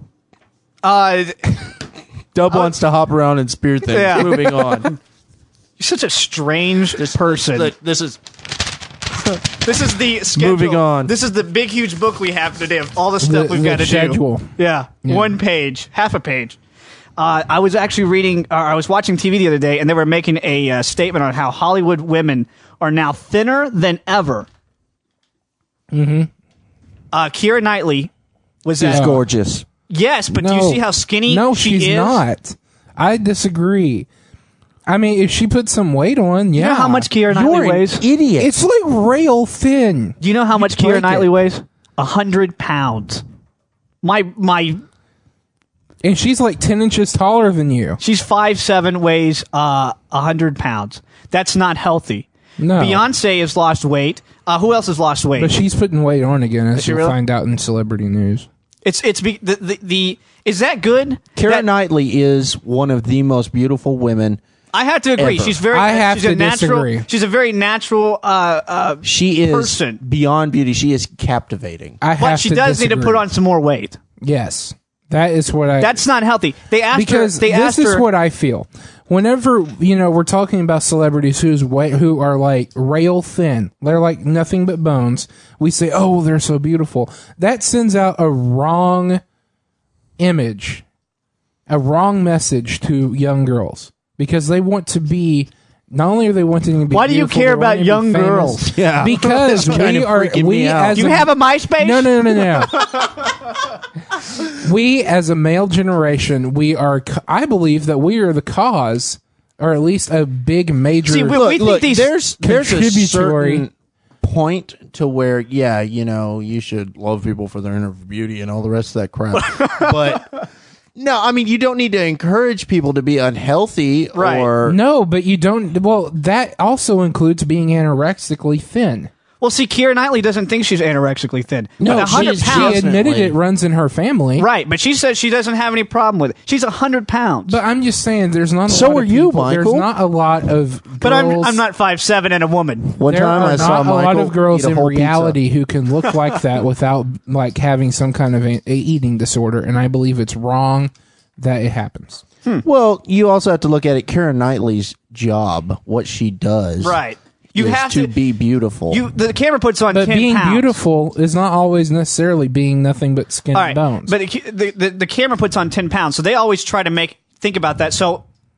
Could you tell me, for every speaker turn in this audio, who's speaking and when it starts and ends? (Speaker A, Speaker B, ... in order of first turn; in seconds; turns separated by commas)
Speaker A: 0.8-1.7, Speaker B: 2.3-5.0, Speaker A: 2.5-2.7, Speaker A: 3.9-5.0, Speaker A: 5.8-7.7, Speaker B: 7.0-8.2, Speaker A: 9.5-16.6, Speaker B: 10.3-11.1, Speaker C: 13.2-15.3, Speaker A: 17.2-24.5, Speaker C: 25.9-26.3, Speaker A: 27.1-28.1, Speaker A: 28.6-29.0, Speaker B: 28.8-29.6, Speaker C: 28.9-29.3, Speaker A: 29.9-32.2, Speaker C: 30.3-34.1, Speaker C: 34.9-37.1, Speaker A: 36.5-38.0, Speaker B: 37.3-38.5, Speaker C: 38.4-41.3, Speaker A: 40.2-43.2, Speaker A: 44.0-44.8, Speaker C: 46.0-48.0, Speaker A: 48.0-55.5, Speaker C: 52.6-53.0, Speaker C: 55.4-58.5, Speaker A: 56.7-57.1, Speaker A: 58.8-61.7, Speaker B: 61.4-64.4, Speaker A: 64.7-70.0, Speaker B: 65.2-65.6, Speaker C: 65.7-67.1, Speaker B: 69.0-72.0, Speaker C: 72.0-73.3, Speaker A: 72.2-74.0, Speaker C: 74.2-76.0, Speaker A: 75.8-78.0, Speaker C: 76.9-89.2, Speaker C: 90.2-90.8, Speaker C: 91.7-102.8, Speaker A: 96.9-98.8, Speaker B: 98.8-101.1, Speaker A: 100.9-103.1, Speaker C: 104.4-113.7, Speaker A: 111.1-112.2, Speaker B: 111.3-113.7, Speaker B: 114.2-120.3, Speaker A: 119.3-119.9, Speaker B: 121.0-124.8, Speaker A: 124.1-124.6, Speaker C: 124.7-129.1, Speaker A: 129.4-132.8, Speaker B: 131.8-133.3, Speaker C: 131.8-134.5, Speaker A: 134.4-137.6, Speaker C: 137.5-141.6, Speaker B: 138.7-139.9, Speaker A: 141.0-143.0, Speaker B: 143.0-145.4, Speaker C: 143.1-152.2, Speaker B: 152.6-157.0, Speaker A: 156.8-158.1, Speaker B: 157.5-159.0, Speaker A: 158.9-160.7, Speaker C: 159.9-164.1, Speaker A: 163.5-168.2